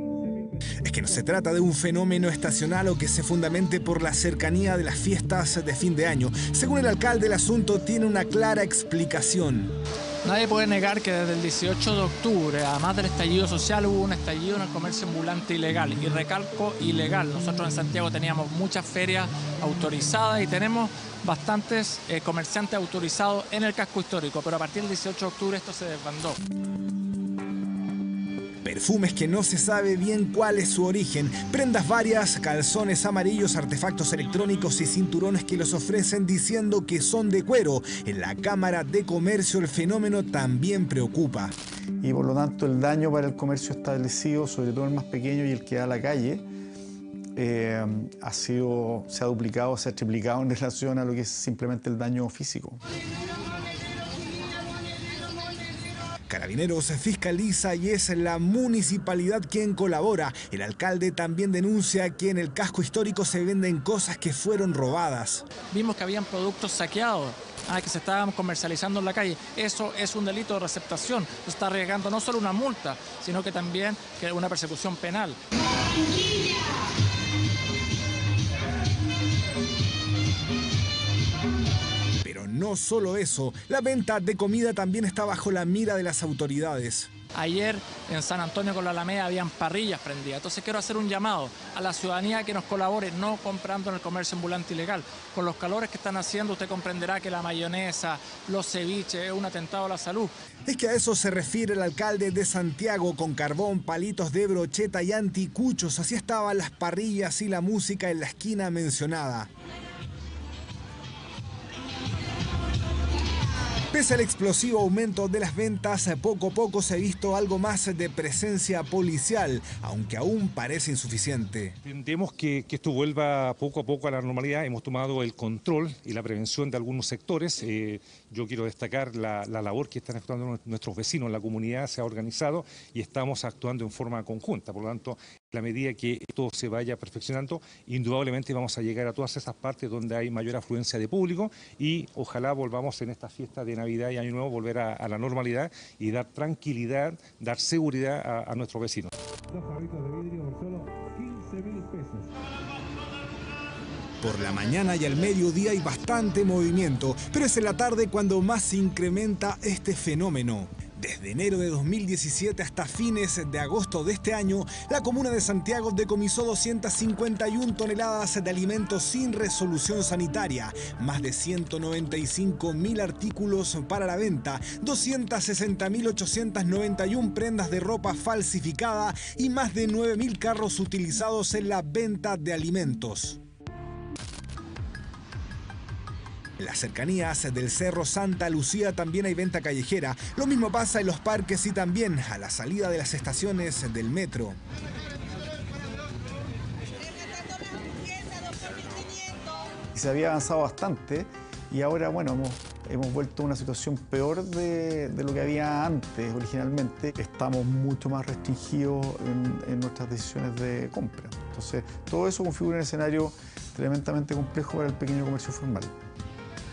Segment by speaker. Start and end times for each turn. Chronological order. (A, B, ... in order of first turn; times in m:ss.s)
0:00.8-0:09.7 A
0:10.2-0:26.4 B
0:28.6-0:41.5 A
0:42.0-0:46.4 C
0:47.4-0:52.8 C
0:56.3-1:05.4 A
1:05.7-1:15.4 B
1:22.2-1:27.1 A
1:27.3-1:40.3 B
1:40.7-1:49.5 A
1:53.9-2:01.8 A
2:01.8-2:32.3 D
2:34.2-3:03.4 A
3:06.6-3:14.6 A
3:19.9-3:35.9 C